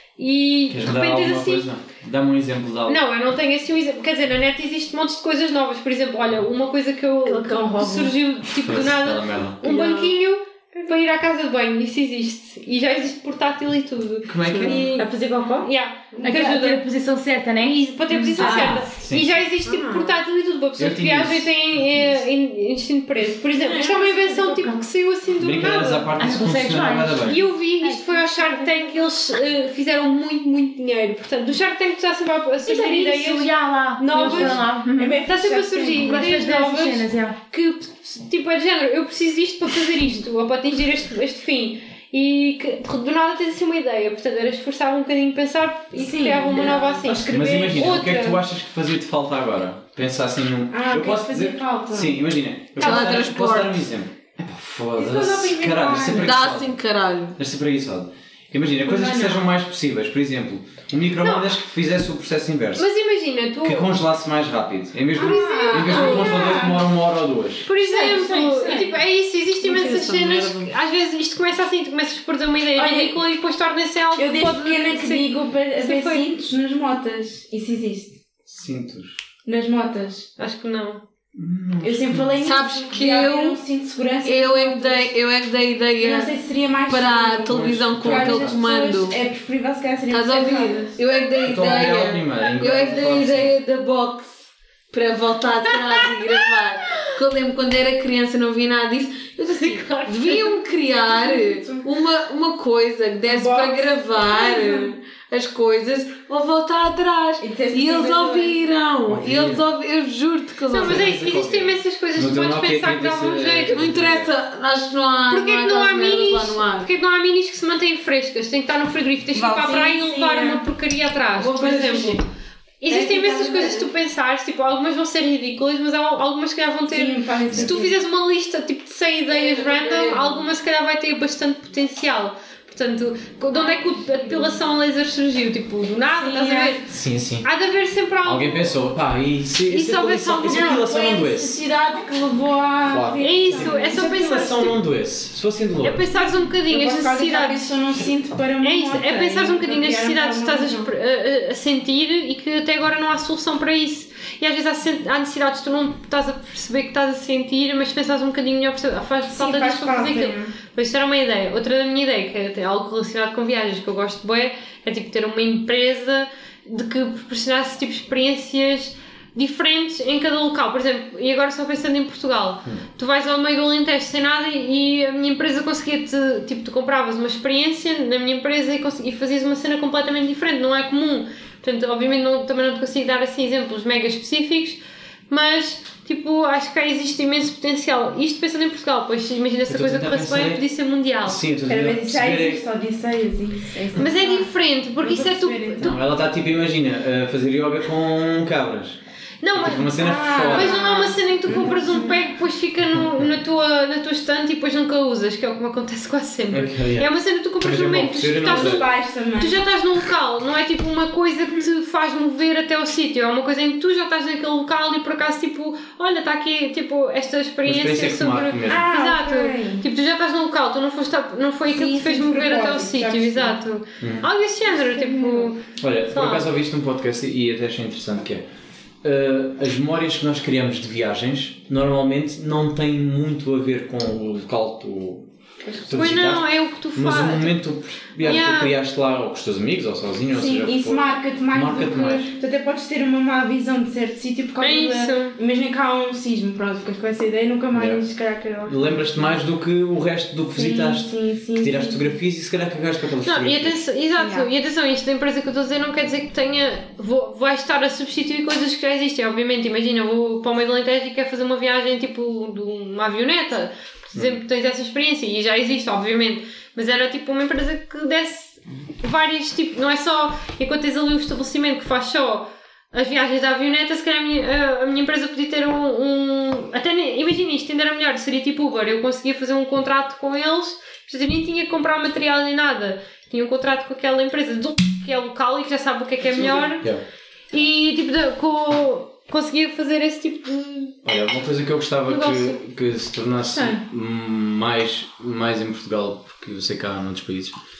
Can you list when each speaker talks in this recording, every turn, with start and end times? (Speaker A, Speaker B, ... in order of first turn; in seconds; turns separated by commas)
Speaker A: 0.2-1.6, Speaker B: 0.7-3.0, Speaker A: 2.9-15.1, Speaker C: 7.2-8.1, Speaker B: 8.5-9.6, Speaker D: 9.6-10.1, Speaker B: 14.3-14.9, Speaker D: 14.4-14.8, Speaker C: 14.7-15.7, Speaker A: 15.6-16.8, Speaker E: 16.2-18.9, Speaker A: 17.6-26.1, Speaker C: 18.4-18.8, Speaker B: 18.9-19.4, Speaker C: 19.6-20.1, Speaker B: 20.8-22.2, Speaker C: 23.6-24.8, Speaker E: 24.3-24.6, Speaker B: 25.4-27.4, Speaker E: 26.1-28.9, Speaker A: 27.2-48.4, Speaker E: 32.6-37.4, Speaker C: 34.1-36.5, Speaker C: 45.9-48.0, Speaker B: 47.3-56.8, Speaker C: 50.7-52.2, Speaker D: 52.8-53.9, Speaker A: 52.8-53.2, Speaker C: 54.9-56.4, Speaker D: 56.0-57.4, Speaker B: 57.4-62.9, Speaker C: 58.8-59.5, Speaker A: 61.2-61.5, Speaker A: 62.8-64.0, Speaker B: 63.6-67.7, Speaker C: 65.1-66.8, Speaker A: 65.2-66.6, Speaker A: 67.6-76.3, Speaker C: 67.8-69.0, Speaker D: 69.6-70.7, Speaker C: 72.8-73.2, Speaker C: 74.2-78.2, Speaker B: 78.5-79.1, Speaker C: 79.4-80.3, Speaker A: 80.4-81.0, Speaker B: 81.3-82.3, Speaker C: 81.8-85.1, Speaker D: 82.4-83.6, Speaker D: 84.2-86.3, Speaker C: 86.0-90.9, Speaker D: 86.9-89.2, Speaker B: 87.5-88.6, Speaker D: 90.1-111.0, Speaker B: 91.4-93.5, Speaker A: 95.7-97.2, Speaker A: 99.5-100.6, Speaker C: 101.3-101.8, Speaker C: 103.2-104.9, Speaker C: 107.4-108.6, Speaker B: 109.1-109.6, Speaker A: 110.7-113.8, Speaker B: 110.8-114.3, Speaker D: 113.7-116.9, Speaker A: 115.3-122.2, Speaker C: 119.3-120.6, Speaker D: 121.4-122.2, Speaker A: 122.8-136.9, Speaker D: 122.9-123.8, Speaker C: 123.2-123.7, Speaker C: 126.9-127.9, Speaker D: 129.3-130.4, Speaker C: 133.6-134.5, Speaker C: 136.1-136.8, Speaker B: 136.8-137.5, Speaker A: 137.4-138.8, Speaker B: 138.2-141.6, Speaker A: 139.7-140.9, Speaker C: 140.4-144.6, Speaker B: 142.9-146.1, Speaker A: 143.2-144.8, Speaker A: 145.8-147.7, Speaker C: 146.1-150.9, Speaker A: 148.6-191.4, Speaker C: 159.3-160.5, Speaker B: 189.7-190.6, Speaker B: 191.2-192.6, Speaker C: 191.7-196.0, Speaker A: 193.9-196.0, Speaker B: 195.8-199.0, Speaker A: 199.4-226.5, Speaker B: 199.5-200.9, Speaker C: 199.9-202.2, Speaker B: 201.5-201.8, Speaker B: 206.5-208.8, Speaker C: 208.4-209.6, Speaker B: 217.7-218.9, Speaker C: 218.6-219.8, Speaker C: 221.7-223.6, Speaker B: 224.0-224.3, Speaker C: 224.7-225.5, Speaker B: 225.8-228.4, Speaker B: 229.0-235.2, Speaker C: 235.6-236.1, Speaker B: 235.8-242.3, Speaker A: 235.9-237.6, Speaker A: 238.2-238.7, Speaker C: 240.3-249.0, Speaker A: 244.6-245.4, Speaker B: 247.7-248.0, Speaker B: 248.6-253.8, Speaker C: 250.5-252.2, Speaker A: 253.2-286.9, Speaker C: 254.2-254.5, Speaker A: 287.5-291.0, Speaker B: 291.0-297.6, Speaker A: 292.1-292.6, Speaker C: 293.4-293.8